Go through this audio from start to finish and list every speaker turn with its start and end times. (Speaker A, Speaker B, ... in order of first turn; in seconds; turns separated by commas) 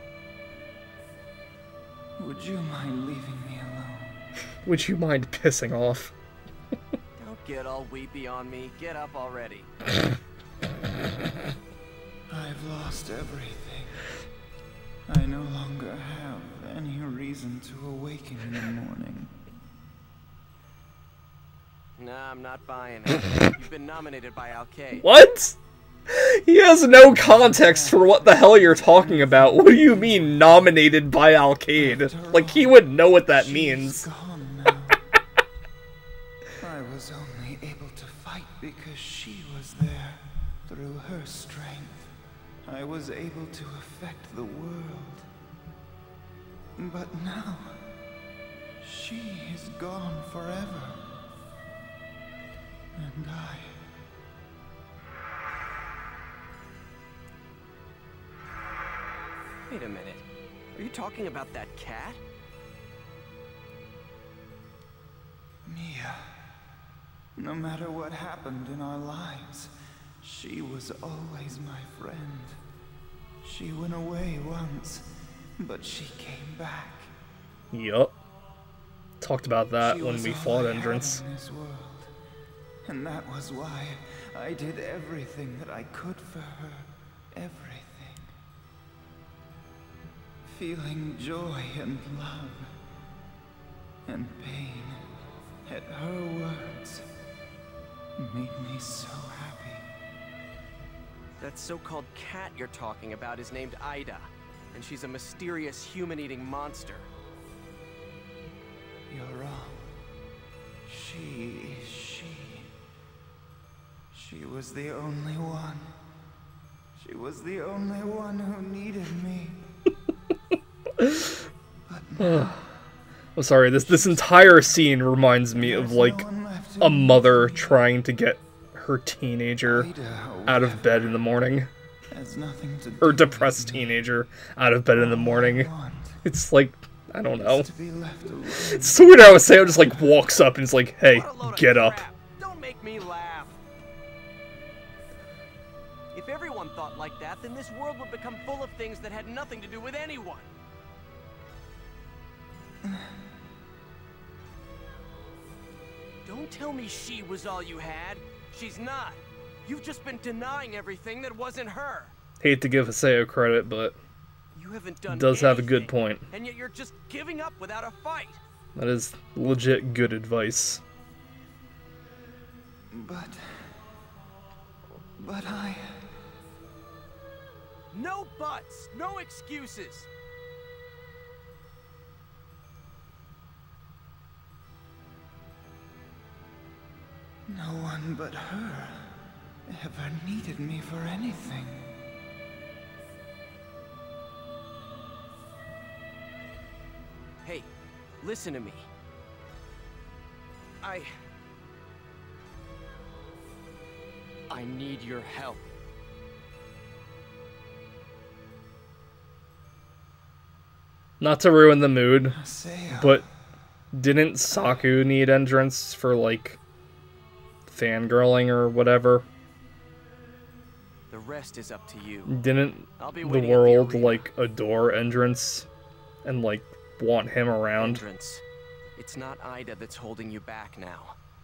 Speaker A: 2.2-4.2, Speaker B: 4.6-6.1, Speaker C: 7.2-9.7, Speaker A: 12.3-14.0, Speaker A: 15.1-19.3, Speaker C: 22.0-25.1, Speaker B: 25.0-34.1, Speaker A: 27.1-30.7, Speaker A: 31.7-35.0, Speaker A: 36.6-42.1, Speaker A: 42.6-45.3, Speaker A: 46.8-47.8, Speaker A: 48.8-51.0, Speaker A: 53.0-53.8, Speaker C: 59.7-62.2, Speaker A: 65.7-66.3, Speaker A: 67.3-72.6, Speaker A: 73.4-77.1, Speaker B: 77.7-78.2, Speaker B: 79.2-81.2, Speaker A: 79.8-82.1, Speaker A: 82.8-88.3, Speaker A: 90.4-92.7, Speaker A: 94.0-95.0, Speaker A: 95.7-97.1, Speaker A: 98.2-99.8, Speaker C: 101.4-107.1, Speaker A: 109.1-109.9, Speaker A: 110.8-112.7, Speaker A: 114.1-115.9, Speaker A: 117.0-119.6, Speaker B: 121.0-121.3, Speaker A: 121.9-122.6, Speaker B: 122.2-122.6, Speaker B: 123.3-126.2, Speaker A: 123.8-124.8, Speaker A: 125.5-127.8, Speaker B: 126.8-129.9, Speaker A: 129.6-131.2, Speaker B: 130.4-131.7, Speaker A: 132.1-134.0, Speaker B: 133.0-135.7, Speaker A: 134.9-136.2, Speaker B: 136.2-137.7, Speaker A: 137.4-140.3, Speaker B: 138.7-142.0, Speaker C: 141.0-143.6, Speaker C: 146.1-150.5, Speaker A: 152.8-153.1, Speaker C: 156.2-162.1, Speaker B: 162.4-163.9, Speaker C: 164.5-168.4, Speaker B: 165.1-166.2, Speaker B: 168.7-170.8, Speaker A: 172.9-173.8, Speaker A: 175.2-176.1, Speaker C: 177.9-180.1, Speaker A: 187.5-191.9, Speaker C: 197.4-197.7, Speaker C: 198.2-198.9, Speaker C: 200.8-201.1, Speaker C: 204.5-205.6, Speaker B: 211.2-212.4, Speaker A: 212.3-213.2, Speaker B: 212.9-213.2, Speaker B: 213.9-216.6, Speaker B: 217.7-219.2, Speaker C: 221.1-222.4, Speaker B: 222.3-225.7, Speaker C: 223.0-224.2, Speaker B: 226.2-228.0, Speaker C: 227.8-228.4, Speaker C: 228.9-231.2